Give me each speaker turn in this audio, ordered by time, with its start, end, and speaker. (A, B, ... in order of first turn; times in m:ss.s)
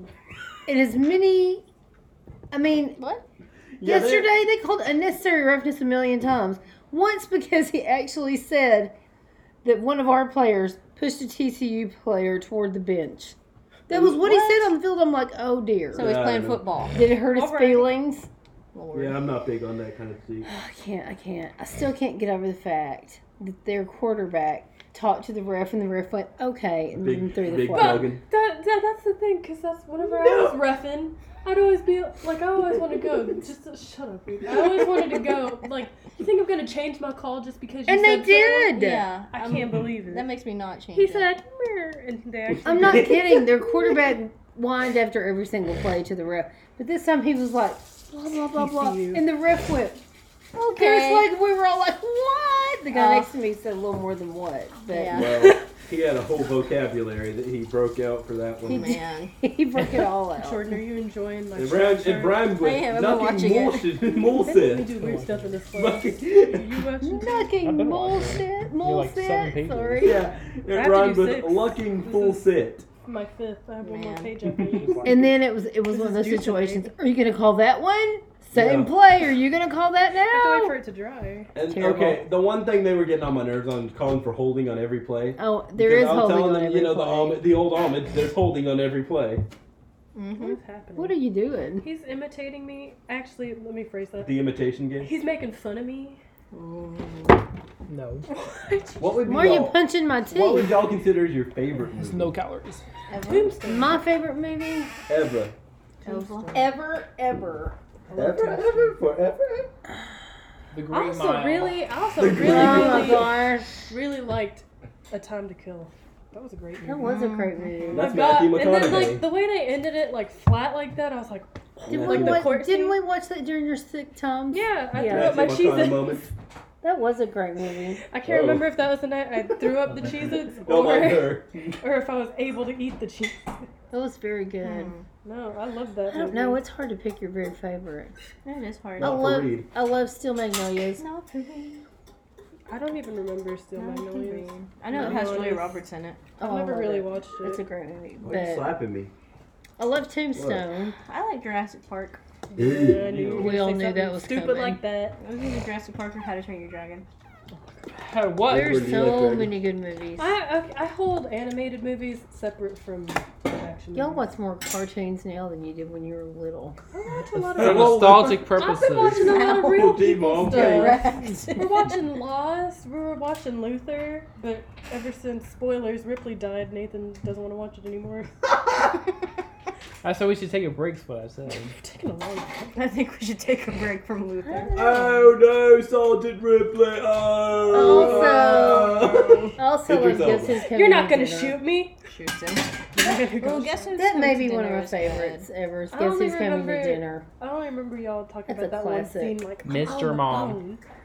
0:00.7-0:01.6 A
0:02.5-0:03.0 A
0:03.0-0:03.2 B
0:03.8-0:04.3 C
0:03.8-0:08.9 A
0:09.6-0:13.4 A
0:13.9-0:16.2 A
0:14.0-0:14.7 B
0:15.9-0:17.0 B
0:16.0-0:16.6 C
0:16.9-0:18.3 A
0:17.2-0:18.0 D
0:18.7-0:19.2 B
0:18.9-0:20.5 C
0:20.4-0:28.1 A
0:27.0-0:28.2 C
0:27.7-0:40.3 D
0:30.0-0:30.6 C
0:37.9-0:39.1 A
0:38.7-0:41.3 B
0:40.9-0:43.4 D
0:42.5-0:43.4 C
0:42.6-0:50.0 A
0:48.2-0:49.2 D
0:50.6-0:51.3 B
0:50.7-0:55.3 A
0:52.9-0:53.3 B
0:54.9-0:55.4 B
0:55.1-0:59.0 C
0:58.7-1:00.8 A
0:58.7-0:59.3 B
1:00.3-1:02.5 D
1:01.6-1:05.0 C
1:02.6-1:03.9 B
1:04.1-1:07.6 D
1:04.9-1:05.6 E
1:05.7-1:06.8 C
1:07.0-1:10.2 A
1:07.6-1:10.1 E
1:10.0-1:12.9 C
1:10.7-1:12.5 D
1:13.0-1:16.9 D
1:13.8-1:14.3 B
1:14.8-1:15.2 E
1:15.0-1:20.8 A
1:18.5-1:18.9 C
1:20.3-1:21.5 D
1:21.6-1:29.4 C
1:21.7-1:22.2 A
1:25.4-1:27.5 A
1:30.2-1:30.6 B
1:30.4-1:31.2 D
1:31.0-1:31.8 A
1:31.8-1:36.2 D
1:34.2-1:35.1 C
1:36.5-1:37.4 B
1:37.9-1:38.3 E
1:38.5-1:39.1 D
1:39.0-1:42.3 C
1:39.2-1:40.8 A
1:41.9-1:42.8 E
1:43.1-1:43.6 B
1:43.2-1:44.0 D
1:43.7-1:44.9 A
1:45.1-1:45.5 C
1:46.0-1:46.7 B
1:46.1-1:46.7 D
1:46.5-1:47.8 A
1:48.1-1:49.0 D
1:48.2-1:49.7 C
1:50.7-1:51.8 E
1:50.9-1:57.3 D
1:52.2-1:53.3 C
1:52.4-1:53.7 A
1:56.8-1:58.1 A
1:57.0-1:58.0 B
1:57.9-2:03.0 D
1:57.9-1:59.3 C
2:01.9-2:02.5 C
2:01.9-2:05.5 A
2:04.5-2:06.3 D
2:05.0-2:06.3 C
2:06.8-2:08.0 A
2:08.1-2:13.6 D
2:08.2-2:08.7 C
2:10.6-2:11.7 C
2:13.9-2:14.9 A
2:14.6-2:15.1 B
2:15.2-2:16.6 D
2:16.1-2:18.1 A
2:18.4-2:19.2 B
2:19.0-2:19.7 C
2:19.0-2:21.0 A
2:21.0-2:21.8 B
2:22.7-2:25.8 D
2:23.8-2:26.3 B
2:25.0-2:25.4 A
2:26.4-2:27.6 D
2:26.4-2:27.1 A
2:27.4-2:28.5 B
2:28.2-2:29.1 C
2:28.2-2:28.7 A
2:29.8-2:31.0 A
2:30.4-2:30.6 C
2:31.1-2:32.2 B
2:32.5-2:35.2 D
2:32.6-2:33.6 C
2:33.3-2:34.8 A
2:35.2-2:37.1 B
2:38.0-2:39.0 E
2:38.5-2:39.5 C
2:38.5-2:40.3 A
2:40.2-2:44.3 D
2:43.9-2:46.8 A
2:46.9-2:58.3 D
2:47.6-2:49.3 E
2:47.6-2:51.0 C
2:49.1-2:51.8 B
3:00.0-3:01.7 E
3:01.7-3:02.8 D
3:02.7-3:04.8 B
3:04.5-3:05.3 A
3:04.8-3:10.6 C
3:07.7-3:09.0 A
3:07.7-3:09.5 B
3:09.6-3:11.6 A
3:10.5-3:12.0 D
3:12.1-3:12.7 B
3:13.0-3:14.0 D
3:13.3-3:15.5 B
3:14.0-3:17.3 A
3:15.9-3:20.8 D
3:18.5-3:19.4 A
3:19.6-3:20.6 E